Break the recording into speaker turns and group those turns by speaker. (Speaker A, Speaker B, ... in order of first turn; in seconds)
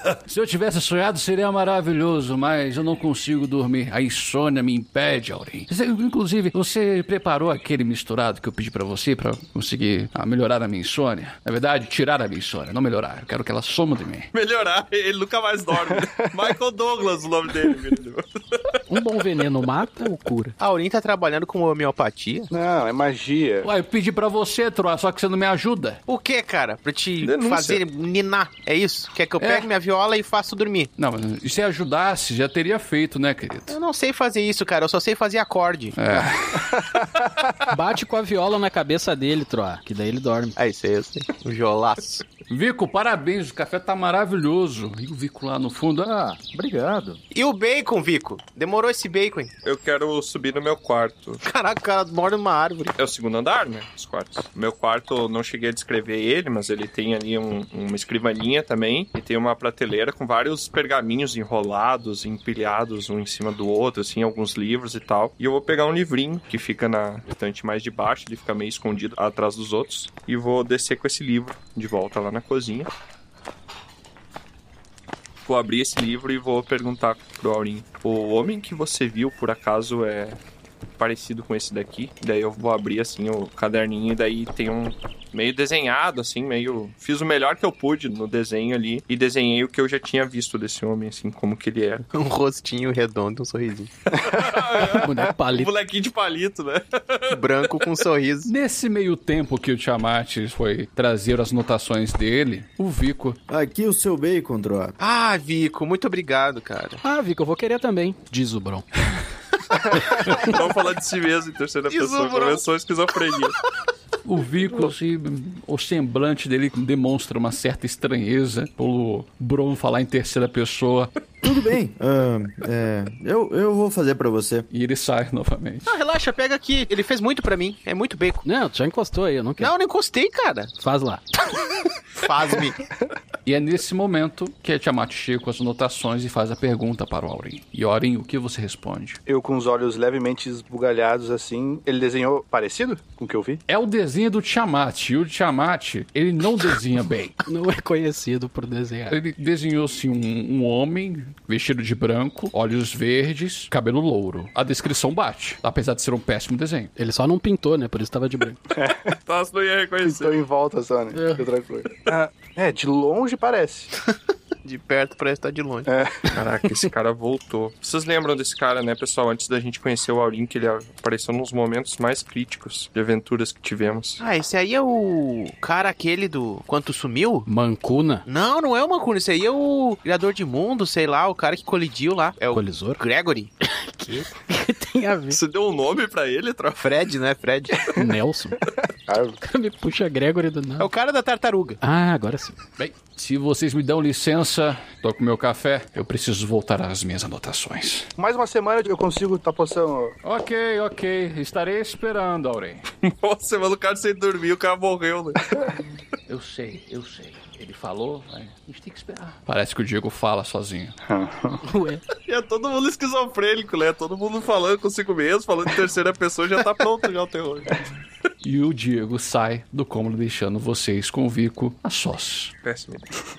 Speaker A: 0.2-14.3, 23.6-26.0, 29.4-29.7, 31.0-33.8, 35.9-36.7, 42.5-46.1, 98.5-103.4, 114.2-121.1, 124.7-125.9, 133.4-139.2, 143.7-147.3, 149.1-156.9, 192.8-198.1, 200.2-202.8, 206.3-211.0, 218.4-222.5
Speaker B: 14.3-18.8, 27.2-27.8, 49.6-51.4, 53.0-72.9, 75.5-80.4, 81.0-92.1, 94.1-97.8, 110.3-113.5, 159.2-160.3, 166.3-174.2, 185.3-186.9, 203.0-205.5, 212.2-217.8, 222.6-223.1
Speaker C: 15.9-16.3, 22.5-23.7, 139.3-143.6, 158.7-159.2, 160.1-163.9, 165.8-166.2, 189.1-189.4, 198.2-200.2, 211.0-211.6
Speaker D: 18.9-20.6, 37.7-40.5, 95.0-95.7, 107.0-108.8, 128.4-129.7, 130.8-131.2, 147.4-149.2, 157.0-158.6, 161.1-161.4, 177.4-178.2, 182.5-183.0, 183.6-185.4, 187.9-188.6, 189.4-190.9, 191.8-192.6, 211.6-212.0
Speaker E: 20.6-22.5, 26.1-30.9, 33.7-36.2, 40.5-42.2, 47.3-49.5, 51.4-53.0, 92.1-93.9, 97.3-98.5, 105.0-107.0, 111.9-112.6, 125.8-128.4, 129.6-130.7, 132.1-132.8, 164.6-165.9, 174.2-177.5, 178.2-183.5, 186.8-187.8, 190.8-191.8
Speaker F: 46.0-47.2, 103.5-105.0, 121.4-124.7